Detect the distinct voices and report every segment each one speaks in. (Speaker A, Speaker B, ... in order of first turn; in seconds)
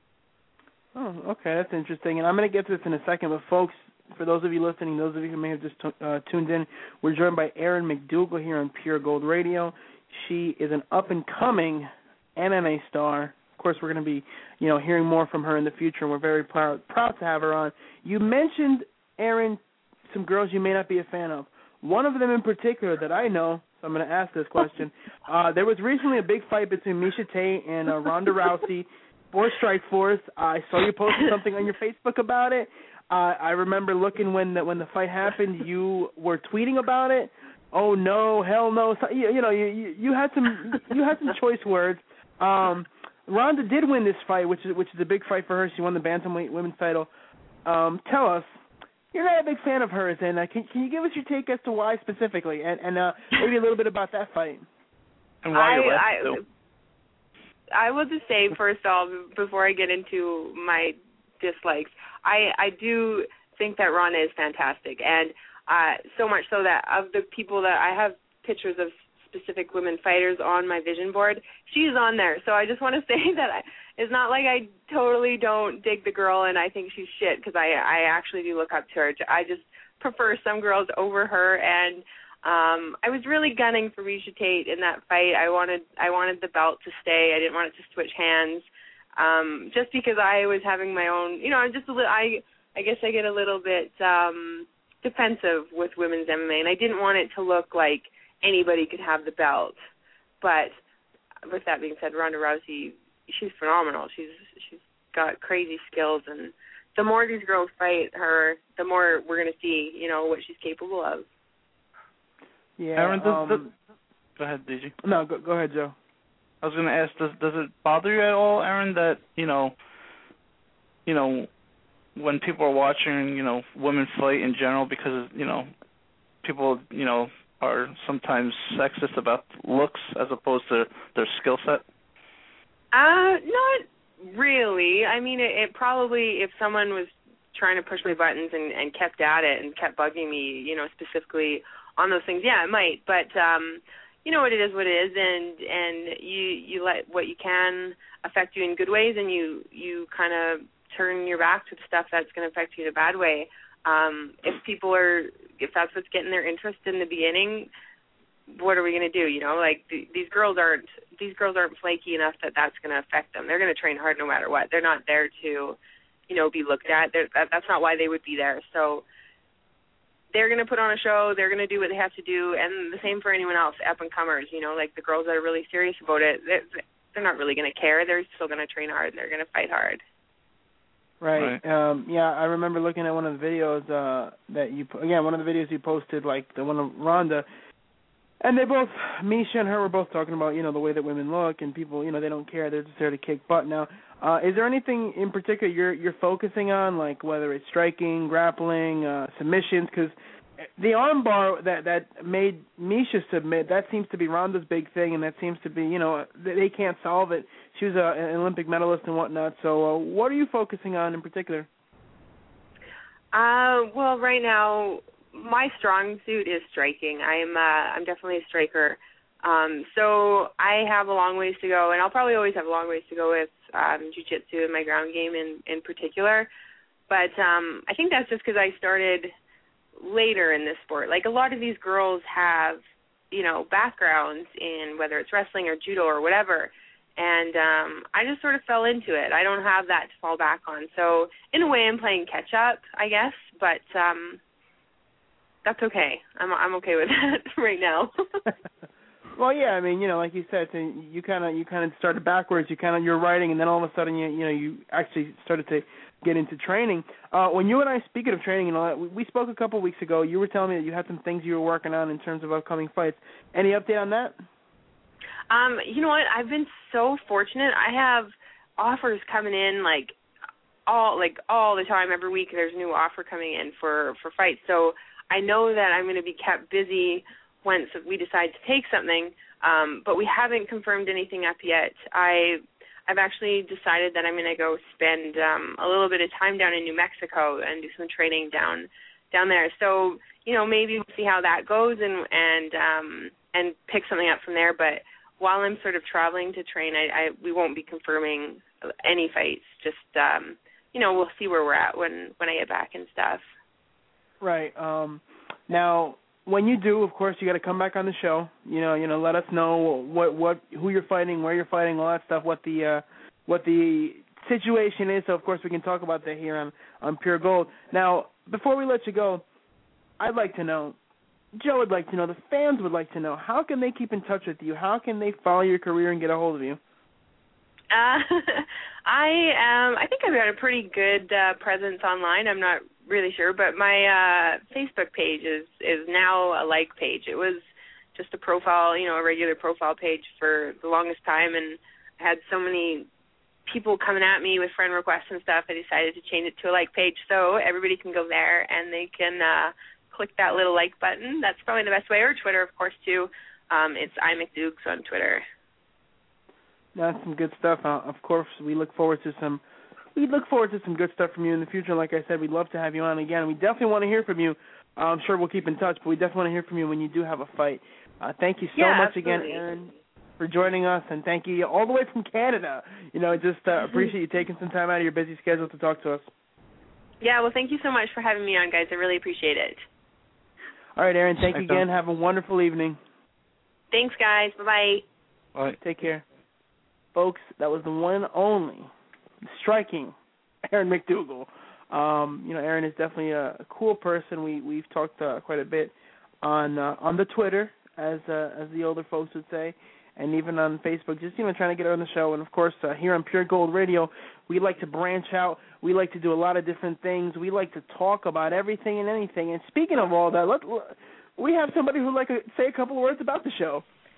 Speaker A: 0.9-47.1, 47.6-48.5, 49.1-54.6, 112.8-113.7, 115.0-115.9, 181.2-187.4, 188.4-200.1, 200.8-211.7, 249.4-264.4, 304.4-319.4, 320.2-320.9, 321.6-326.8, 356.9-359.6, 360.1-376.2, 381.0-383.0, 385.8-386.2, 387.1-388.9, 389.4-390.1, 390.6-413.8
Speaker B: 55.4-56.4, 113.0-113.6, 114.4-114.9, 116.6-119.7, 121.0-121.5, 122.2-125.7, 126.4-131.8, 381.4-381.8
Speaker C: 55.5-56.4, 57.7-88.6, 89.2-99.7, 100.4-100.7, 101.5-111.2, 132.9-157.7, 158.5-165.8, 166.3-169.0, 170.3-180.0, 213.3-226.5, 227.1-229.3, 230.0-232.8, 233.3-244.4, 245.6-248.5, 265.5-270.1, 270.9-303.4, 327.9-343.1, 343.6-355.4, 368.7-369.6, 377.2-379.8, 383.9-385.0